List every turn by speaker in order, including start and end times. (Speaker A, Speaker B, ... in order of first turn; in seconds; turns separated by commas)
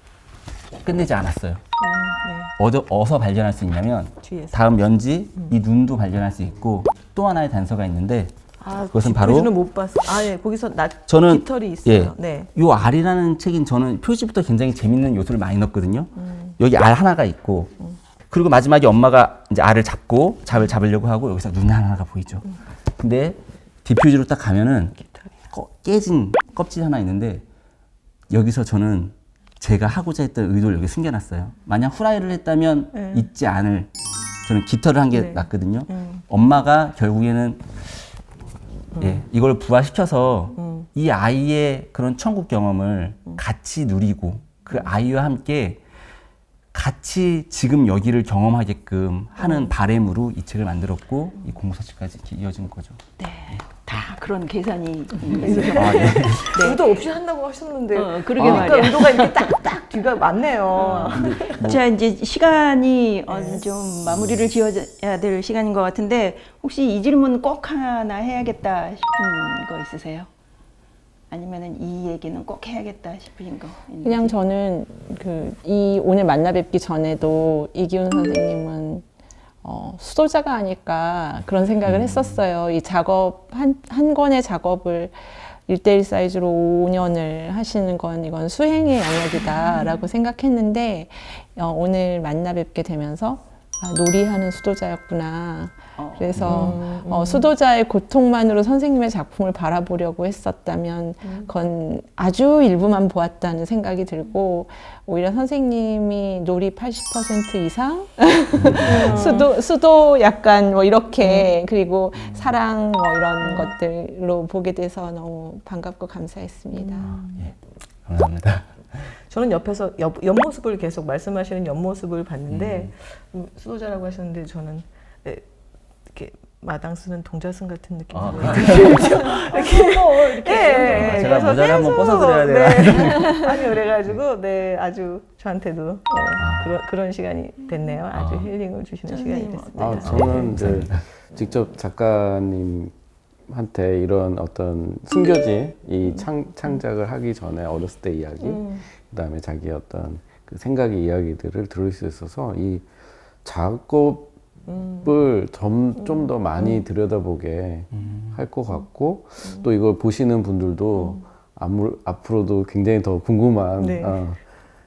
Speaker A: 0.8-1.6, Speaker B: 1.8-2.5, Speaker A: 2.6-8.3, Speaker B: 4.2-4.6, Speaker B: 8.6-12.5, Speaker A: 8.9-9.5, Speaker A: 11.1-17.7, Speaker A: 18.3-22.5, Speaker A: 23.0-24.9, Speaker A: 25.5-27.4, Speaker A: 28.3-33.9, Speaker B: 33.0-33.3, Speaker A: 34.5-37.7, Speaker B: 35.1-36.2, Speaker B: 39.0-39.2, Speaker A: 39.0-45.8, Speaker B: 40.6-40.9, Speaker A: 46.7-53.0, Speaker C: 53.2-56.9, Speaker B: 55.4-61.6, Speaker A: 55.7-56.5, Speaker C: 57.9-59.7, Speaker C: 60.7-70.3, Speaker A: 61.1-61.8, Speaker B: 63.3-63.6, Speaker C: 71.3-74.4, Speaker D: 74.0-79.0, Speaker D: 79.6-117.1, Speaker A: 81.8-82.4, Speaker C: 96.0-96.4, Speaker A: 96.4-96.7, Speaker B: 96.4-97.5, Speaker A: 108.6-109.3, Speaker B: 108.8-109.5, Speaker B: 111.2-111.5, Speaker B: 113.4-113.7, Speaker B: 116.8-117.3, Speaker A: 117.0-117.5, Speaker A: 118.1-119.0, Speaker B: 119.3-125.5, Speaker A: 122.5-122.9, Speaker B: 126.1-140.6, Speaker A: 128.1-129.2, Speaker C: 128.3-131.6, Speaker A: 130.8-133.4, Speaker A: 136.4-136.8, Speaker A: 138.1-138.5, Speaker C: 139.1-140.4, Speaker E: 139.7-142.9, Speaker A: 140.0-141.0, Speaker E: 143.5-152.9, Speaker B: 146.0-146.8, Speaker B: 148.4-148.8, Speaker E: 153.4-154.3, Speaker B: 154.7-155.1, Speaker E: 155.0-164.4, Speaker B: 156.0-156.8, Speaker B: 159.4-159.7, Speaker B: 163.8-164.2